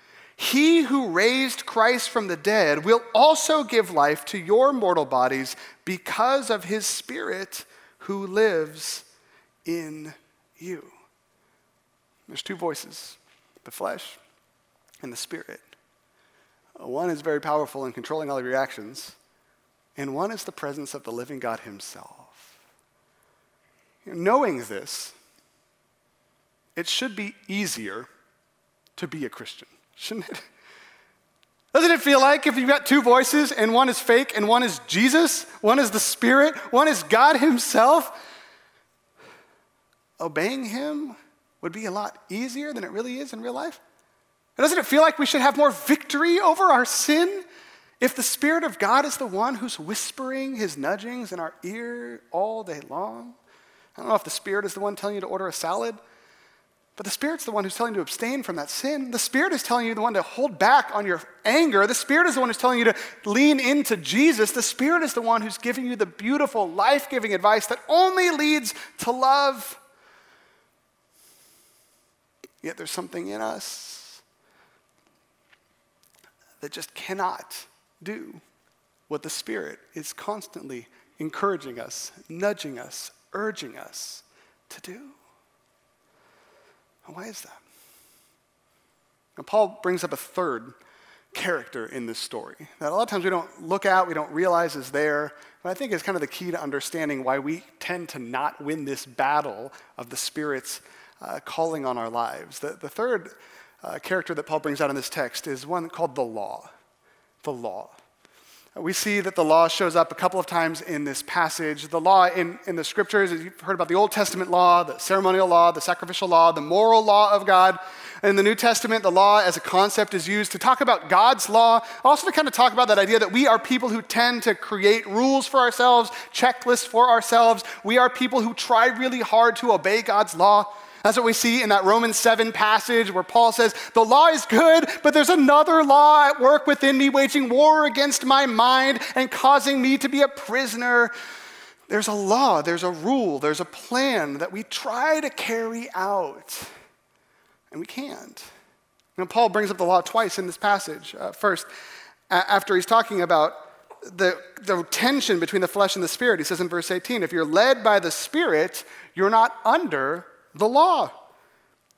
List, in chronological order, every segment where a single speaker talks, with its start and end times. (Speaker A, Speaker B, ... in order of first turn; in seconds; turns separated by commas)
Speaker A: 0.4-9.1, Speaker A: 9.6-10.9, Speaker A: 12.3-14.2, Speaker A: 15.0-15.7, Speaker A: 16.8-19.1, Speaker A: 19.9-22.6, Speaker A: 24.0-25.1, Speaker A: 26.8-28.1, Speaker A: 28.9-30.4, Speaker A: 31.7-38.1, Speaker A: 40.2-43.8, Speaker A: 44.6-47.4, Speaker A: 48.0-53.4, Speaker A: 54.0-56.0, Speaker A: 57.0-69.8, Speaker A: 72.6-74.2, Speaker A: 76.6-78.4, Speaker A: 79.1-85.2, Speaker A: 87.0-87.6, Speaker A: 89.4-90.7, Speaker A: 91.3-106.7, Speaker A: 107.4-108.0, Speaker A: 108.8-141.1, Speaker A: 141.9-146.7, Speaker A: 147.7-148.4, Speaker A: 149.2-151.7, Speaker A: 152.3-161.1